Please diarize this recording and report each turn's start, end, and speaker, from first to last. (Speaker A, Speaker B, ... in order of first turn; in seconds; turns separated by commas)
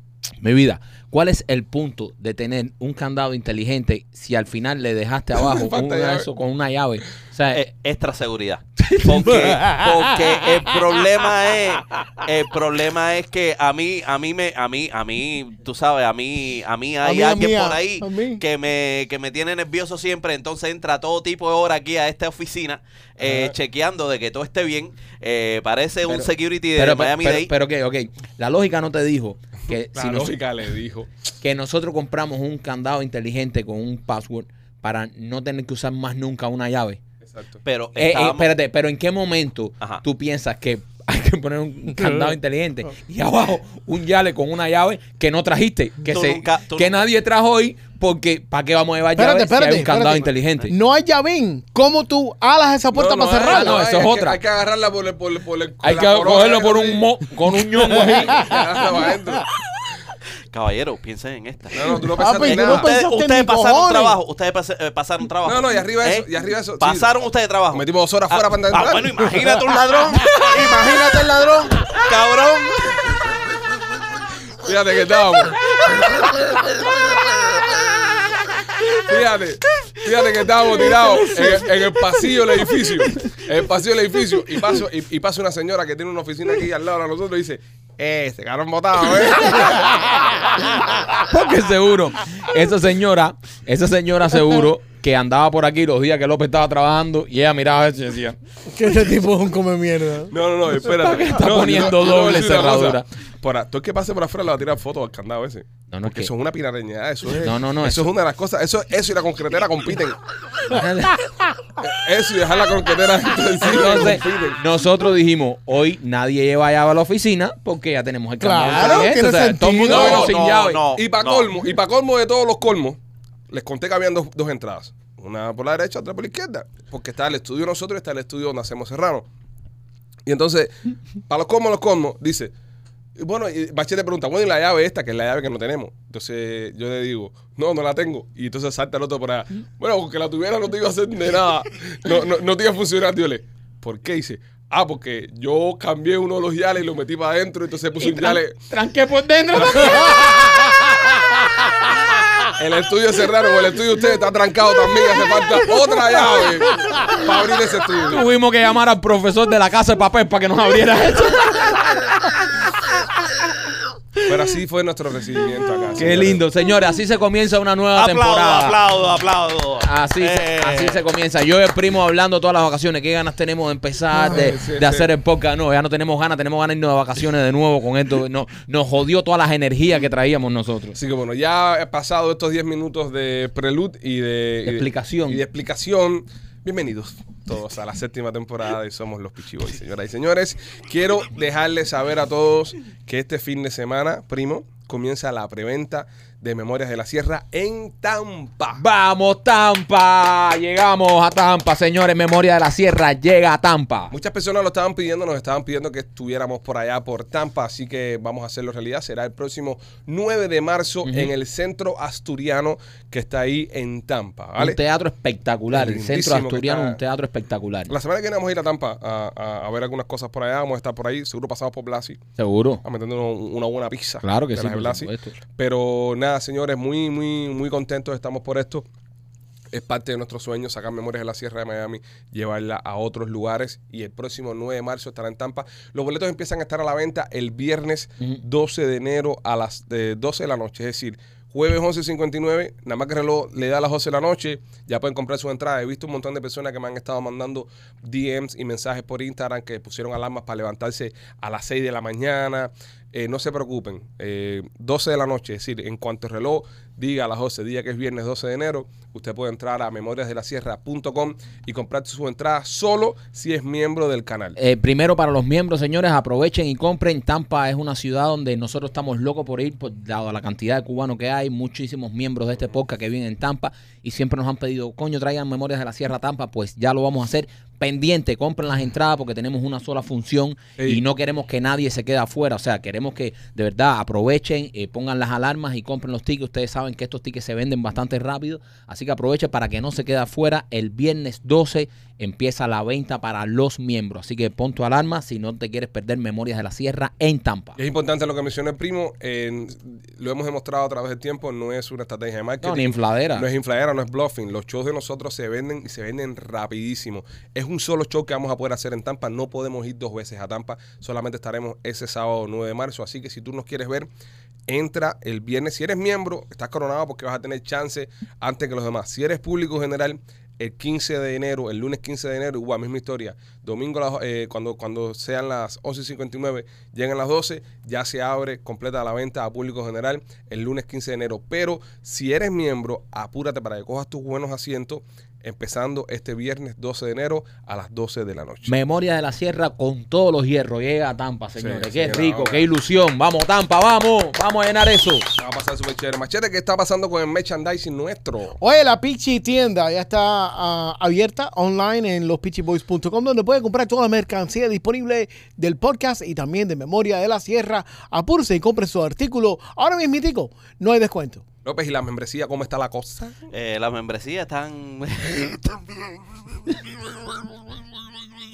Speaker A: 0.4-7.7, Speaker B: 5.3-6.3, Speaker C: 7.5-27.5, Speaker D: 9.1-10.7, Speaker D: 17.0-18.4, Speaker B: 23.2-23.5, Speaker A: 26.1-30.4, Speaker B: 29.9-31.1, Speaker A: 31.4-37.0, Speaker B: 37.2-37.6, Speaker C: 37.6-38.5, Speaker A: 38.0-50.7, Speaker C: 46.1-47.0, Speaker D: 49.1-53.8, Speaker B: 52.9-57.1, Speaker A: 53.5-54.4, Speaker A: 55.8-58.5, Speaker B: 57.9-59.5, Speaker C: 60.5-66.3, Speaker B: 61.7-62.9, Speaker D: 62.1-64.2, Speaker B: 65.4-67.1, Speaker C: 66.8-73.2, Speaker B: 67.7-69.3, Speaker B: 74.6-76.4, Speaker B: 77.5-77.9, Speaker B: 78.8-90.5, Speaker A: 91.1-98.4, Speaker D: 98.7-100.3, Speaker B: 100.3-110.2, Speaker A: 100.8-103.0, Speaker A: 105.9-106.3, Speaker A: 107.4-108.1, Speaker A: 110.7-111.2, Speaker B: 111.8-114.6, Speaker A: 113.6-120.8, Speaker D: 118.4-120.3, Speaker B: 118.8-119.0, Speaker C: 119.9-121.5, Speaker B: 119.9-123.0, Speaker B: 123.5-129.3, Speaker B: 130.2-130.7, Speaker B: 131.3-132.5, Speaker B: 133.2-148.6, Speaker A: 148.0-151.2, Speaker B: 149.5-150.4, Speaker B: 152.6-158.2, Speaker A: 158.1-162.1, Speaker B: 164.2-166.4, Speaker A: 165.9-168.8, Speaker C: 167.9-171.0, Speaker A: 169.8-181.0, Speaker D: 174.2-174.5, Speaker B: 174.2-175.1, Speaker B: 180.9-198.8, Speaker A: 184.6-185.4, Speaker A: 198.7-204.1, Speaker B: 204.1-214.8, Speaker A: 211.0-211.3, Speaker A: 214.6-217.9, Speaker B: 215.7-217.0, Speaker B: 217.9-222.2, Speaker A: 222.4-222.8, Speaker B: 222.8-228.8, Speaker A: 224.2-225.3, Speaker B: 229.7-264.6, Speaker A: 264.6-297.8, Speaker B: 297.8-314.1, Speaker A: 302.6-303.5, Speaker B: 314.7-338.7, Speaker A: 338.6-345.4, Speaker B: 341.6-342.7, Speaker B: 345.4-348.6, Speaker D: 348.6-361.4, Speaker B: 361.6-363.3, Speaker C: 363.5-365.8